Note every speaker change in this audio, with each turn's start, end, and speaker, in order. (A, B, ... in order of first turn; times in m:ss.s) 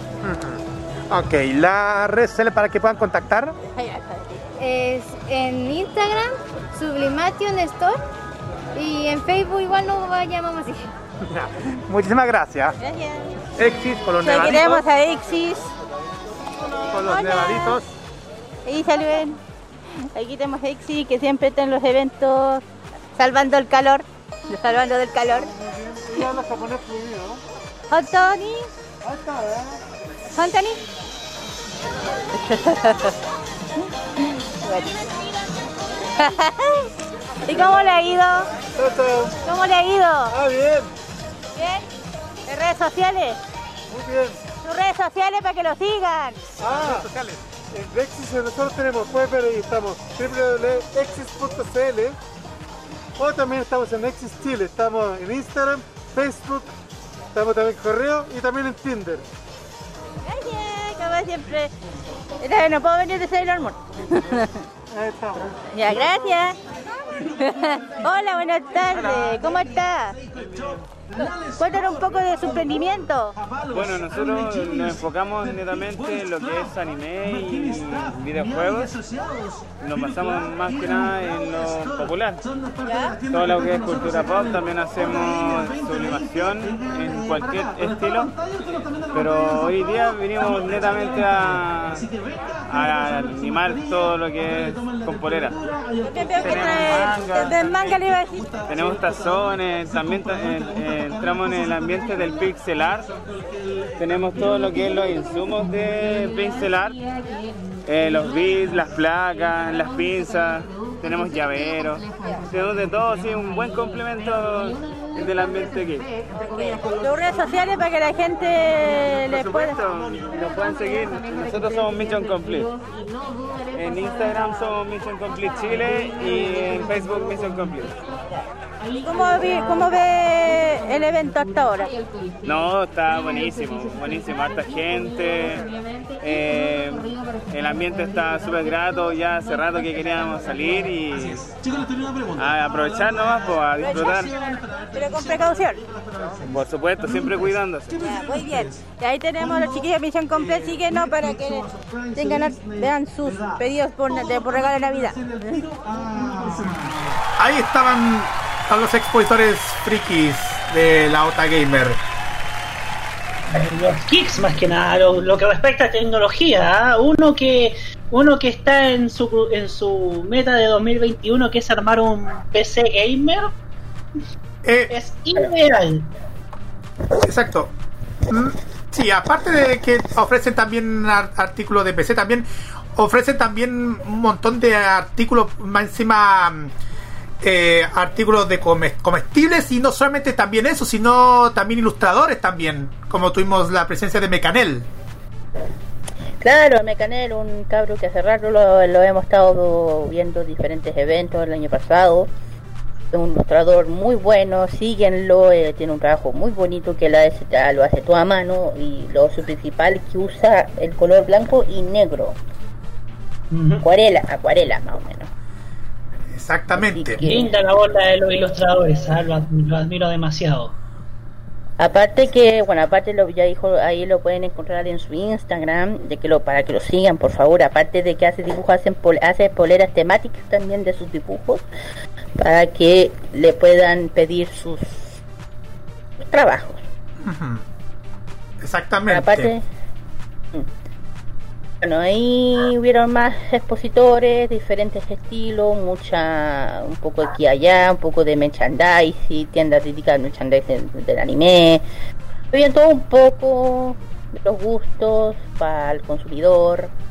0:00.2-0:03.6 A
0:03.7-0:04.4 B
0:04.6-0:08.0 C
0:08.8-0:10.9 C
0:11.3-0:12.8 A
0:12.8-0:13.3 B
0:13.6-0:14.9 A
0:14.2-0:15.7 B
0:16.9-0:17.9 A
0:17.0-0:17.8 B
0:18.7-0:19.4 B
0:20.1-0:22.6 B
0:23.2-0:25.5 B
0:25.8-0:27.4 D
0:27.9-0:28.7 B
0:29.0-0:29.8 D
0:30.3-0:30.8 B
0:32.3-0:33.1 B
0:34.6-0:35.0 B
0:36.2-0:36.9 B
0:37.4-0:38.5 B
0:38.8-0:39.4 D
0:39.4-0:40.3 B
0:40.3-0:40.9 D
0:41.6-0:41.9 B
0:42.5-0:43.4 B
0:43.9-0:44.4 D
0:44.6-0:46.4 B
0:46.6-0:47.1 D
0:46.7-0:47.4 A
0:47.7-0:52.2 D
0:53.2-0:56.7 D
0:57.4-0:59.2 D
1:00.2-1:01.7 B
1:02.4-1:04.6 B
1:04.9-1:05.5 D
1:05.7-1:06.6 B
1:07.4-1:10.2 B
1:11.2-1:13.3 B
1:13.7-1:18.9 E
1:19.8-1:22.4 E
1:22.9-1:23.1 B
1:23.3-1:28.3 E
1:29.1-1:32.1 E
1:32.7-1:35.6 E
1:36.0-1:38.5 B
1:36.4-1:38.0 E
1:38.6-1:43.1 E
1:44.0-1:47.0 E
1:47.8-1:56.1 E
1:56.4-1:59.8 B
1:59.3-2:02.7 E
2:03.7-2:07.9 E
2:09.0-2:11.9 B
2:12.4-2:15.7 E
2:16.2-2:21.5 E
2:22.4-2:24.3 E
2:23.8-2:24.3 B
2:24.9-2:25.8 B
2:26.3-2:27.9 E
2:28.0-2:35.7 B
2:36.6-2:42.0 A
2:43.5-2:53.5 F
2:54.6-2:54.9 A
2:54.9-2:56.1 F
2:57.2-2:57.7 A
2:58.3-3:06.7 A
3:07.4-3:14.9 A
3:16.4-3:22.3 G
3:23.1-3:32.4 G
3:33.5-3:33.8 F
3:33.8-3:35.3 G
3:36.3-3:37.2 A
3:36.7-3:37.5 G
3:37.2-3:40.7 F
3:41.8-3:51.6 G
3:52.4-3:55.2 G
3:56.2-3:56.8 G
3:57.2-3:57.6 A
3:58.6-3:59.5 A
3:59.1-3:59.7 G
4:01.8-4:11.8 G
4:12.5-4:16.9 G